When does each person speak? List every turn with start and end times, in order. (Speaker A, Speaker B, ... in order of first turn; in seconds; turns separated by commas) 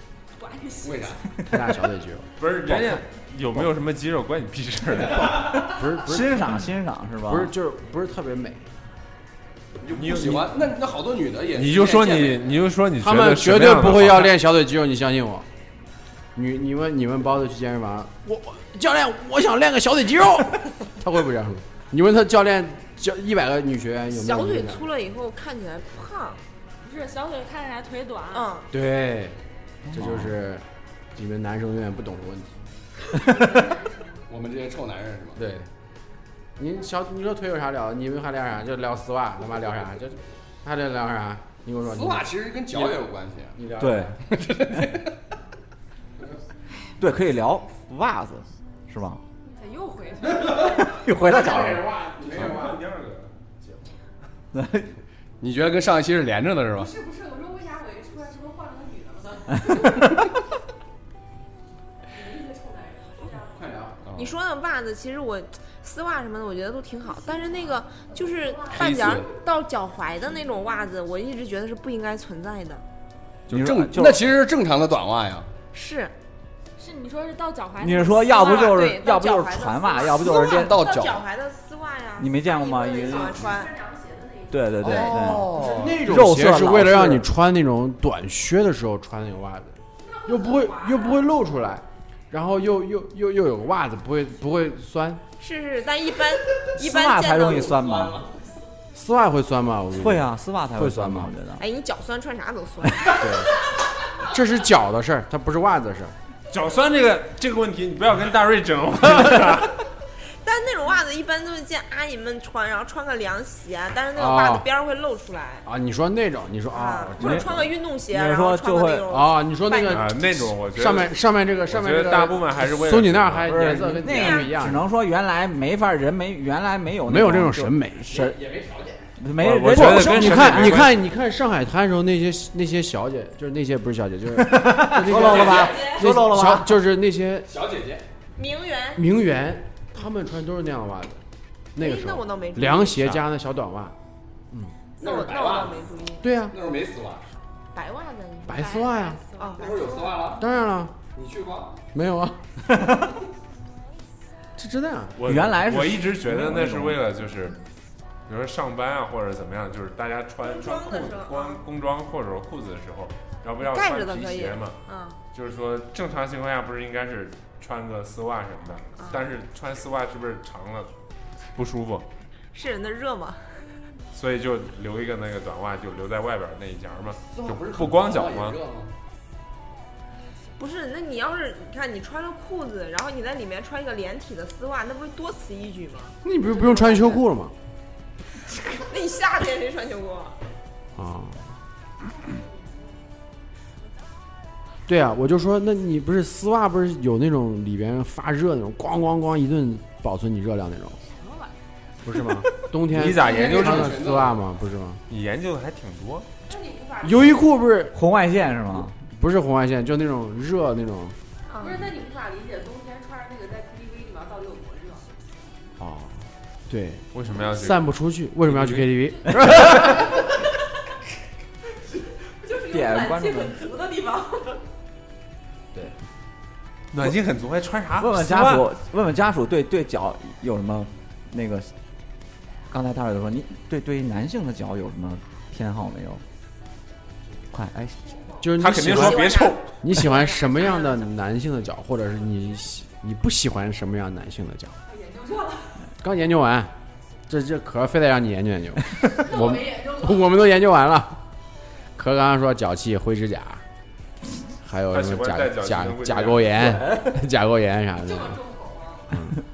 Speaker A: 0.4-0.7, Speaker B: 0.8-1.2, Speaker C: 1.4-2.7, Speaker D: 2.4-5.6, Speaker E: 5.4-7.5, Speaker C: 5.7-6.6, Speaker C: 7.2-8.7, Speaker B: 9.8-12.6, Speaker D: 9.9-10.5, Speaker D: 11.5-14.3, Speaker C: 13.0-15.5, Speaker C: 16.3-24.9, Speaker F: 24.1-26.4, Speaker A: 26.8-28.5, Speaker F: 28.3-28.7, Speaker C: 28.7-29.4, Speaker E: 29.9-30.3, Speaker C: 29.9-32.6, Speaker B: 34.3-35.4, Speaker C: 35.4-35.7, Speaker C: 36.6-44.4, Speaker B: 41.8-43.6, Speaker E: 43.8-44.1, Speaker B: 44.4-45.1, Speaker E: 47.0-49.2, Speaker G: 49.5-50.7, Speaker A: 49.8-50.7, Speaker E: 50.6-51.8, Speaker C: 51.0-52.8, Speaker D: 52.2-53.8, Speaker E: 54.5-54.9, Speaker B: 55.4-56.9, Speaker G: 56.8-60.1, Speaker G: 62.1-63.7, Speaker C: 63.5-64.0, Speaker B: 64.0-64.3, Speaker F: 64.2-72.8, Speaker B: 68.7-69.3, Speaker E: 73.5-74.2, Speaker B: 73.5-75.5, Speaker F: 75.7-76.1, Speaker A: 76.8-78.8, Speaker E: 77.8-80.8, Speaker F: 78.3-83.7, Speaker B: 80.3-81.2, Speaker E: 82.2-83.5, Speaker G: 83.0-85.8, Speaker E: 84.5-85.5, Speaker B: 84.8-86.0, Speaker C: 85.7-95.2, Speaker E: 86.0-87.2, Speaker G: 90.0-91.3, Speaker F: 95.4-98.1, Speaker E: 96.7-98.2, Speaker B: 97.8-98.2, Speaker C: 98.9-101.3, Speaker E: 99.9-101.6, Speaker F: 101.6-103.5, Speaker C: 104.2-106.1, Speaker D: 106.5-109.8, Speaker F: 110.2-115.7, Speaker C: 114.1-114.7, Speaker C: 115.6-117.7, Speaker F: 116.7-120.1, Speaker E: 117.2-117.5, Speaker E: 118.1-119.0, Speaker C: 119.1-124.8, Speaker D: 119.8-121.1, Speaker D: 121.7-123.6, Speaker E: 123.4-128.3, Speaker F: 124.1-124.5, Speaker C: 127.0-128.3, Speaker B: 128.1-129.1, Speaker E: 129.2-130.8, Speaker D: 129.4-131.0, Speaker C: 129.7-137.5, Speaker E: 134.3-136.8, Speaker B: 135.2-135.7, Speaker B: 137.5-138.0, Speaker F: 138.3-139.0, Speaker C: 138.9-141.2, Speaker C: 141.7-143.9, Speaker F: 141.8-143.1, Speaker F: 145.0-146.3, Speaker B: 145.0-145.9, Speaker C: 146.2-146.6, Speaker B: 146.5-147.2, Speaker F: 147.7-150.3, Speaker C: 148.4-149.2, Speaker A: 148.9-149.7, Speaker B: 149.6-150.4, Speaker C: 150.3-150.9, Speaker B: 151.1-151.8, Speaker C: 151.9-152.4, Speaker C: 154.6-155.2, Speaker D: 155.2-157.6, Speaker E: 155.2-157.0, Speaker D: 158.3-164.8, Speaker F: 160.4-161.6, Speaker F: 163.7-165.2, Speaker D: 165.3-170.9, Speaker F: 169.0-169.3, Speaker D: 171.6-172.1, Speaker F: 172.5-173.7, Speaker D: 174.1-178.6, Speaker B: 177.2-178.9, Speaker F: 180.6-187.2, Speaker C: 186.2-187.5, Speaker F: 188.7-190.4, Speaker C: 190.9-191.4, Speaker C: 194.9-201.0, Speaker A: 201.1-201.6, Speaker C: 202.0-205.0, Speaker D: 202.9-203.9, Speaker B: 203.2-204.4, Speaker D: 205.1-206.3, Speaker G: 206.5-207.5, Speaker C: 207.0-207.9, Speaker E: 207.9-209.0, Speaker C: 209.1-211.2, Speaker F: 211.5-211.9, Speaker G: 211.6-215.0, Speaker C: 215.8-220.1, Speaker D: 217.1-217.8, Speaker D: 218.4-218.9, Speaker E: 219.4-219.8, Speaker G: 222.4-224.6, Speaker E: 222.7-223.6, Speaker D: 226.9-228.7, Speaker E: 228.0-231.7, Speaker E: 232.7-236.2, Speaker E: 237.5-238.1, Speaker G: 238.0-238.5, Speaker C: 238.4-239.3, Speaker D: 238.6-239.8, Speaker G: 239.0-239.5, Speaker F: 239.2-239.6, Speaker C: 239.8-244.8, Speaker G: 240.1-240.8, Speaker G: 244.9-245.8, Speaker C: 246.0-246.7, Speaker C: 247.3-251.2, Speaker G: 249.1-250.3, Speaker C: 251.9-253.6, Speaker C: 254.6-258.4, Speaker D: 254.9-256.8, Speaker G: 258.0-259.2